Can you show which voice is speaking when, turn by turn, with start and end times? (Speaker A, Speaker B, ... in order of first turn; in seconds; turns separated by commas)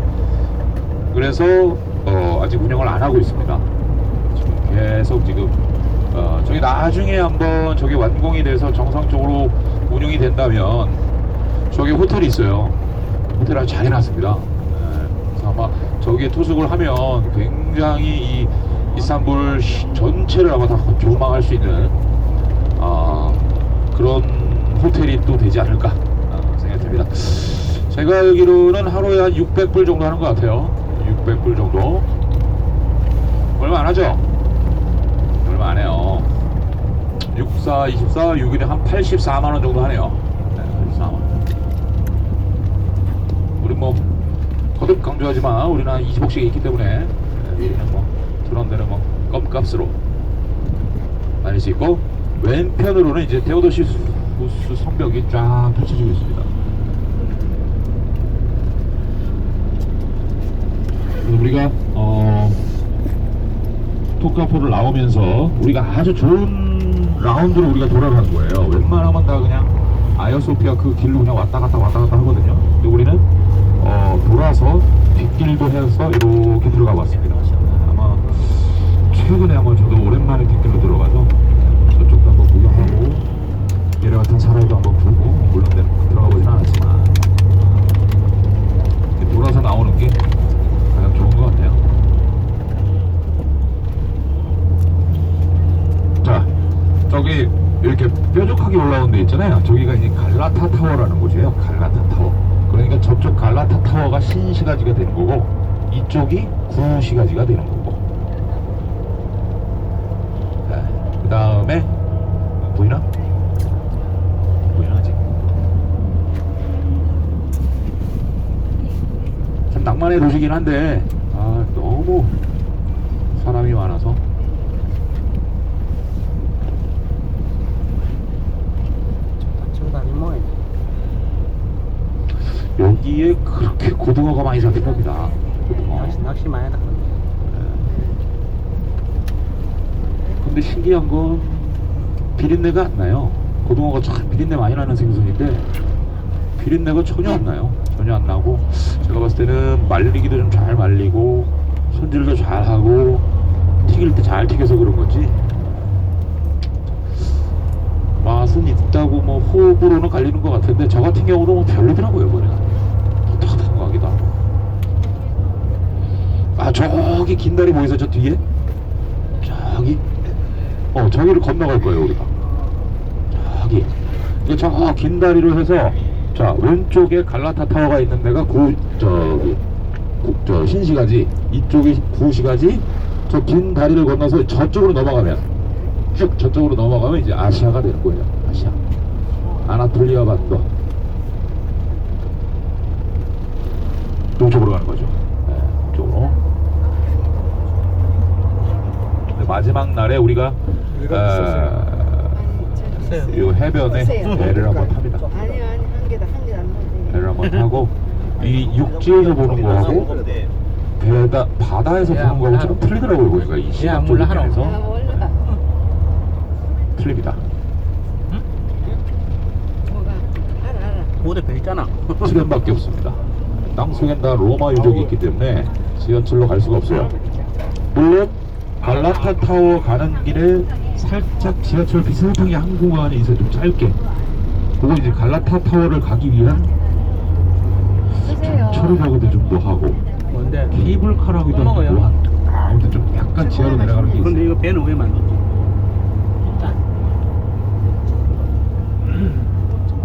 Speaker A: 1.1-3.7, Speaker A: 4.3-5.6, Speaker A: 6.1-11.0, Speaker A: 11.6-22.0, Speaker A: 22.8-32.1, Speaker A: 33.5-34.2, Speaker A: 35.4-36.3, Speaker A: 37.3-41.4, Speaker A: 43.6-44.0, Speaker A: 44.7-50.0, Speaker A: 51.4-56.5, Speaker A: 61.1-62.7, Speaker A: 64.2-73.3, Speaker A: 73.8-83.2, Speaker A: 84.0-87.2, Speaker A: 89.2-90.2, Speaker A: 90.8-91.8, Speaker A: 96.2-96.5, Speaker A: 97.1-108.0, Speaker A: 110.7-111.9, Speaker A: 112.6-113.1, Speaker A: 114.6-115.3, Speaker A: 119.7-122.4, Speaker A: 123.3-124.2, Speaker B: 129.4-130.6, Speaker A: 132.6-136.2, Speaker B: 135.9-137.2, Speaker A: 137.4-137.9, Speaker A: 140.3-145.7, Speaker A: 146.6-153.3, Speaker A: 153.8-155.4, Speaker A: 158.2-164.3, Speaker A: 166.5-168.4, Speaker A: 169.4-170.1, Speaker A: 170.9-172.3, Speaker A: 173.3-179.6, Speaker A: 180.2-185.4, Speaker A: 186.1-188.8, Speaker A: 189.6-190.7, Speaker A: 194.4-196.4, Speaker A: 199.3-202.5, Speaker C: 202.4-203.3, Speaker A: 203.3-205.3, Speaker C: 205.3-207.0, Speaker A: 207.1-210.1, Speaker A: 211.0-215.3, Speaker B: 212.1-212.7, Speaker B: 213.8-214.5, Speaker A: 216.9-217.4, Speaker C: 220.0-220.2, Speaker B: 221.2-222.2, Speaker A: 222.2-227.1, Speaker A: 227.9-234.0, Speaker A: 234.8-236.7, Speaker A: 238.2-240.0, Speaker B: 240.3-240.8, Speaker A: 240.7-244.5, Speaker B: 241.5-242.0, Speaker B: 244.2-245.3